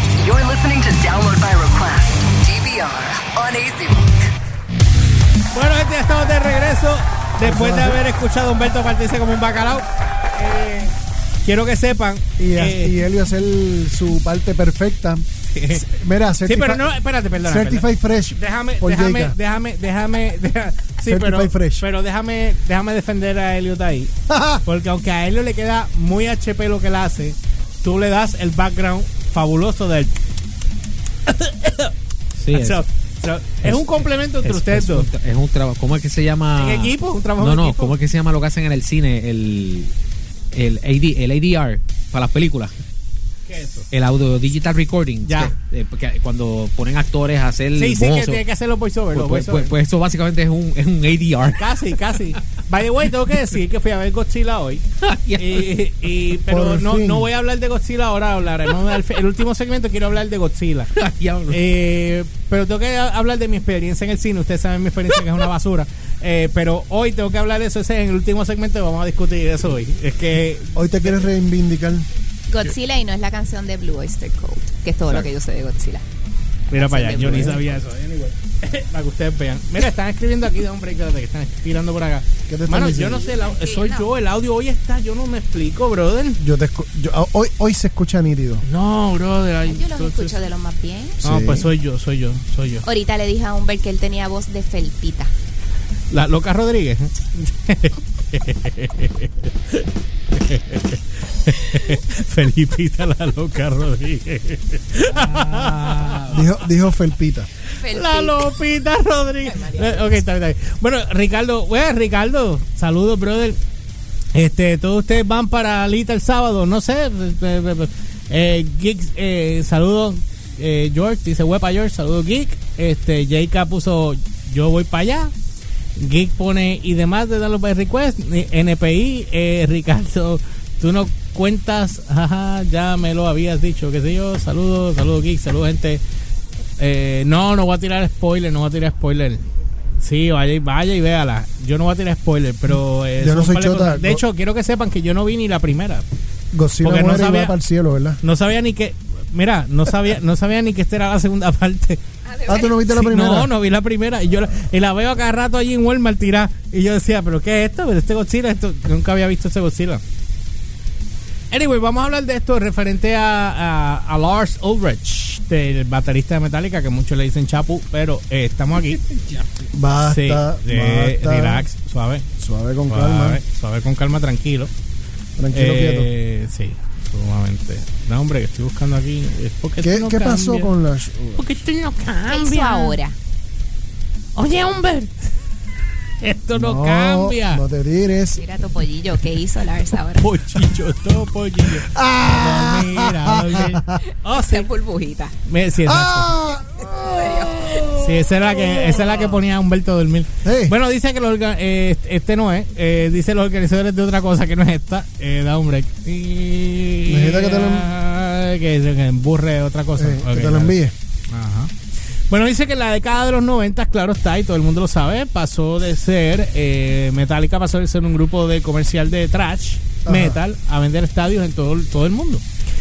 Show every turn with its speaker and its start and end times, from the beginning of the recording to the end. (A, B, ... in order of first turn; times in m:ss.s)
0:00.2-0:04.2 A
0:05.5-0:12.9 B
0:07.4-0:08.0 C
0:12.4-0:16.9 C
0:15.5-0:15.8 B
0:16.4-0:24.1 B
0:17.4-0:19.4 C
0:21.0-0:21.9 C
0:24.3-0:24.6 C
0:24.6-0:30.1 B
0:31.2-0:31.9 B
0:32.4-0:32.8 D
0:32.5-0:35.1 B
0:33.6-0:39.9 D
0:36.5-0:38.0 B
0:40.5-0:42.7 D
0:43.4-0:43.9 B
0:43.9-0:48.4 D
0:45.2-0:45.5 B
0:47.7-0:49.8 B
0:49.1-0:52.0 D
0:51.6-0:54.8 B
0:55.0-0:55.7 D
0:55.3-1:00.9 B
0:56.5-0:57.3 C
1:00.9-1:01.6 D
1:01.5-1:11.3 B
1:10.7-1:12.1 C
1:12.5-1:16.0 E
1:16.7-1:26.4 B
1:16.7-1:17.7 E
1:22.5-1:23.2 C
1:23.0-1:24.1 E
1:26.4-1:28.6 C
1:28.6-1:30.4 B
1:29.6-1:31.2 E
1:31.2-1:31.7 C
1:31.2-1:32.8 B
1:32.8-1:35.3 E
1:36.1-1:46.5 B
1:45.1-1:46.5 D
1:46.3-1:47.5 C
1:47.7-1:48.5 E
1:47.9-1:53.6 B
1:49.4-1:50.2 E
1:54.3-2:05.3 B
2:06.0-2:16.0 B
2:16.8-2:19.5 B
2:20.0-2:26.0 B
2:23.2-2:24.2 C
2:26.5-2:28.2 C
2:26.8-2:27.6 B
2:28.2-2:32.0 B
2:32.2-2:32.7 E
2:32.5-2:33.5 C
2:32.7-2:40.0 B
2:41.5-2:49.0 B
2:48.9-2:49.6 D
2:49.7-2:51.6 C
2:50.0-2:52.3 B
2:52.4-2:53.4 C
2:52.9-2:54.7 B
2:55.4-2:56.1 C
2:55.5-3:00.7 B
2:59.8-3:01.5 C
3:01.4-3:03.0 B
3:02.3-3:03.2 E
3:04.3-3:05.1 B
3:06.2-3:07.6 B
3:06.5-3:08.4 C
3:08.3-3:10.2 E
3:10.2-3:14.7 B
3:11.6-3:13.9 C
3:14.3-3:15.3 E
3:15.4-3:16.3 B
3:15.8-3:19.3 C
3:16.8-3:17.9 E
3:17.9-3:31.7 B
3:20.4-3:20.8 C
3:27.0-3:27.9 C
3:30.0-3:30.9 C
3:32.3-3:42.4 B
3:40.0-3:40.4 C